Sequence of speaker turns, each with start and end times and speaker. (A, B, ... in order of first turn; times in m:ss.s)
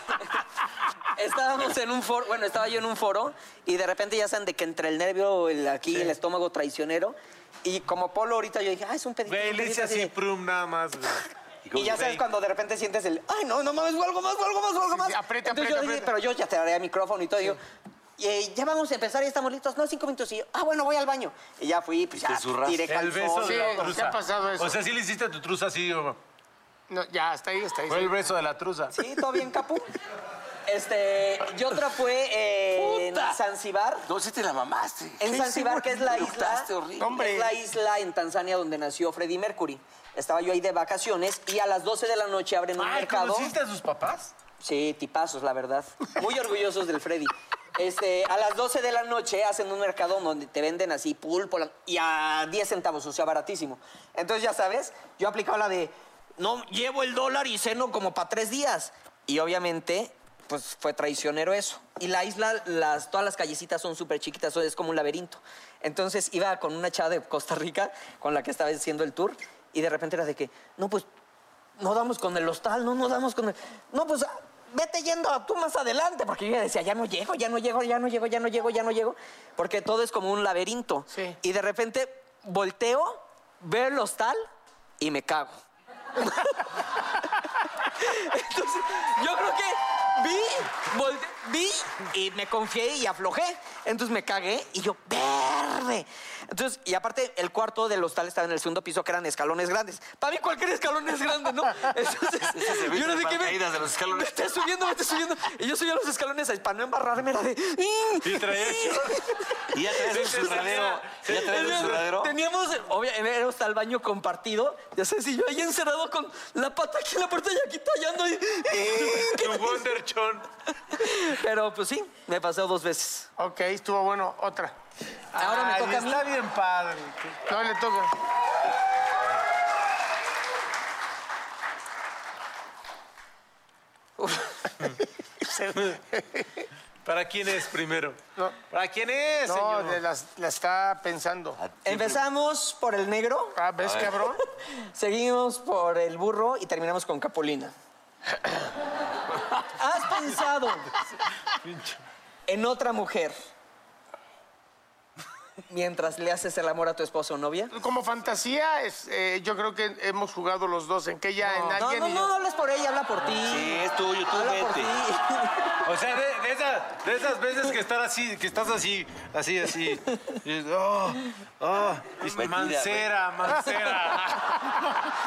0:01.2-0:10.1 A
0:09.3-0:11.3 B
0:11.6-0:12.2 C
0:11.7-0:17.6 A
0:14.9-0:16.1 D
0:18.2-0:23.9 A
0:22.2-0:22.9 C
0:22.9-0:26.2 B
0:23.4-0:24.8 D
0:26.9-0:28.1 D
0:27.9-0:29.0 B
0:28.9-0:29.9 A
0:30.7-0:34.0 A
0:32.8-0:33.4 C
0:34.1-0:37.1 C
0:35.2-0:43.5 A
0:37.0-0:37.5 D
0:42.8-0:44.3 B
0:44.6-1:11.1 A
1:11.8-1:24.5 A
1:25.0-1:25.6 A
1:26.2-1:27.0 A
1:27.8-1:49.7 A
1:42.4-1:44.5 C
1:48.2-1:49.2 B
1:49.7-1:52.3 C
1:50.0-1:52.0 B
1:51.3-1:59.9 A
1:58.8-2:00.5 B
2:00.9-2:03.3 A
2:03.4-2:04.7 D
2:05.3-2:07.4 B
2:05.4-2:06.2 A
2:07.5-2:08.1 D
2:14.2-2:14.5 A
2:15.4-2:16.6 D
2:17.0-2:18.2 B
2:18.7-2:20.0 B
2:19.5-2:21.6 D
2:21.6-2:22.2 C
2:21.9-2:23.6 A
2:23.6-2:24.4 D
2:23.8-2:24.2 C
2:24.9-2:27.7 A
2:29.7-2:30.9 A
2:31.6-2:32.0 B
2:32.5-2:33.4 A
2:35.7-2:37.7 A
2:37.7-2:42.3 D
2:41.6-2:45.8 A
2:43.3-2:44.9 C
2:45.8-2:55.0 B
2:52.2-2:53.1 C